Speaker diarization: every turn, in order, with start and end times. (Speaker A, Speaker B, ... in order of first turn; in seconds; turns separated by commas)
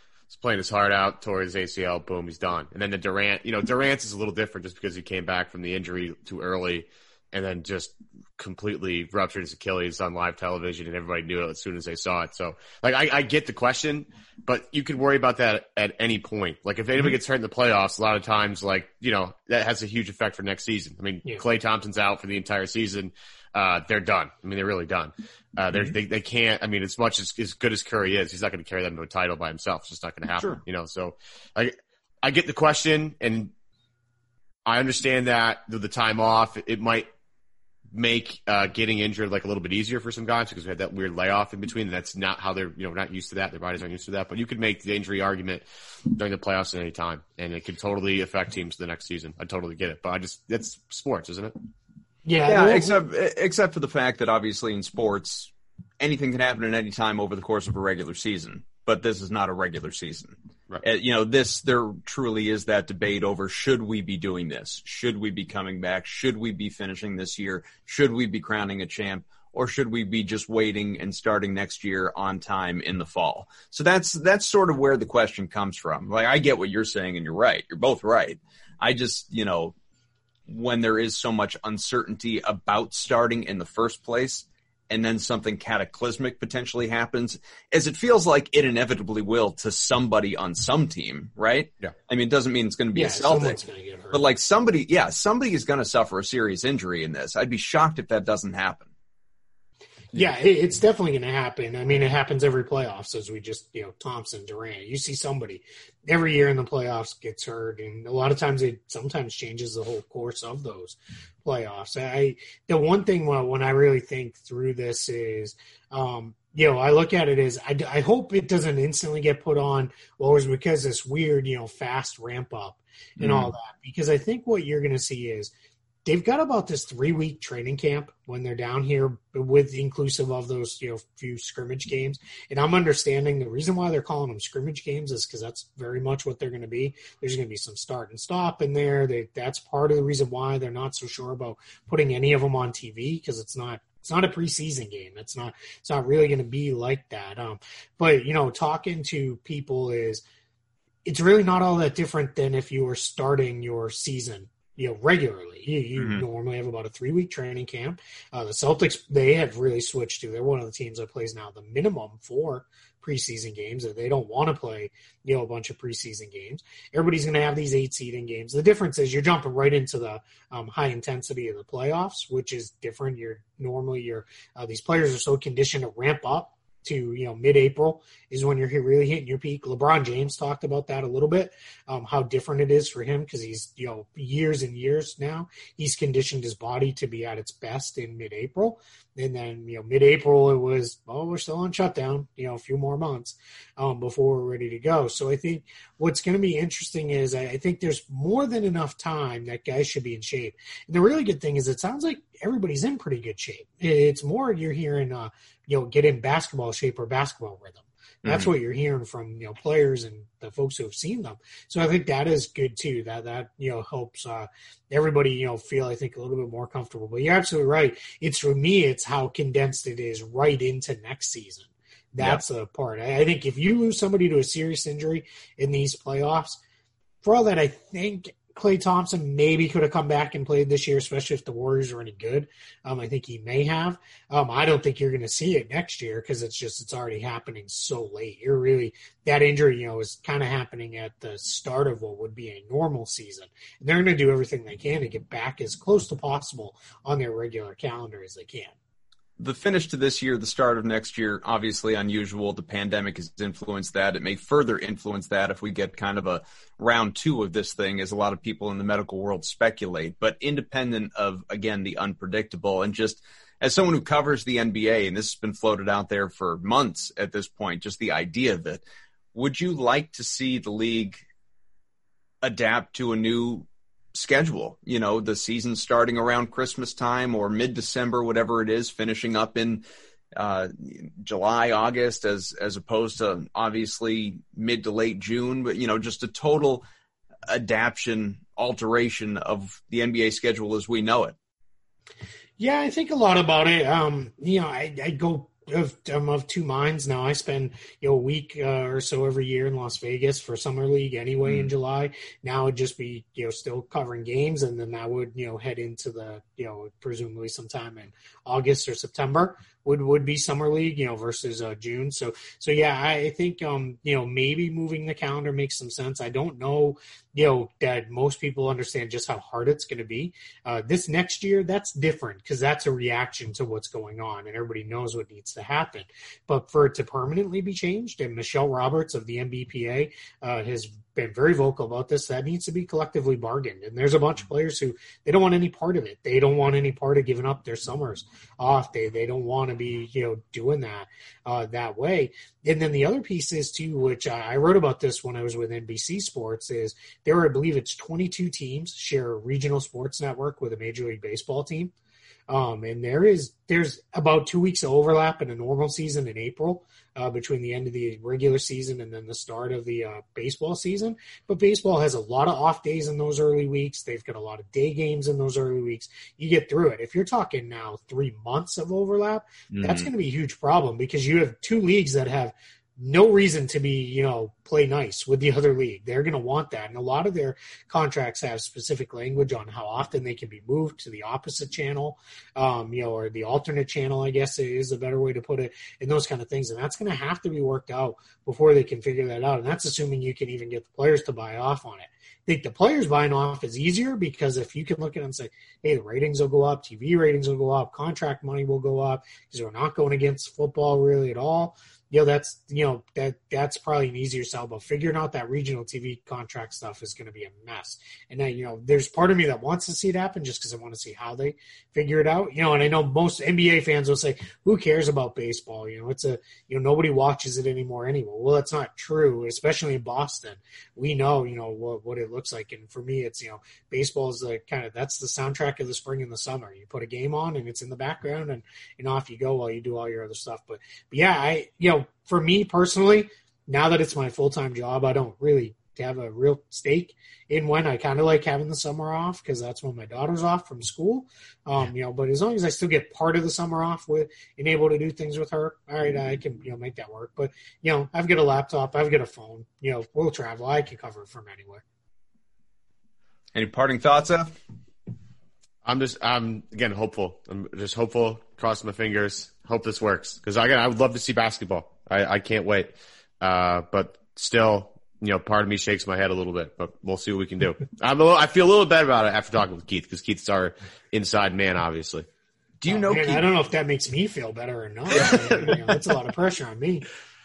Speaker A: 0.3-33.5, Speaker A: 34.6-37.1, Speaker A: 37.9-51.5, Speaker B: 52.2-53.0, Speaker C: 52.5-79.7, Speaker C: 80.5-93.6, Speaker B: 92.9-94.2, Speaker C: 94.1-98.9, Speaker B: 100.1-125.5, Speaker C: 123.2-123.5, Speaker B: 126.0-150.2, Speaker B: 151.0-226.6, Speaker C: 156.0-156.2, Speaker C: 208.2-208.5, Speaker B: 227.2-248.7, Speaker C: 249.4-268.8, Speaker C: 269.3-271.2, Speaker C: 272.4-279.8, Speaker C: 280.4-286.8, Speaker C: 287.5-291.4, Speaker B: 292.6-351.9, Speaker C: 301.4-301.7, Speaker B: 352.5-451.8, Speaker C: 369.7-370.1, Speaker C: 453.5-454.5, Speaker A: 455.8-472.3, Speaker C: 472.8-473.4, Speaker B: 472.9-477.1, Speaker C: 475.1-475.7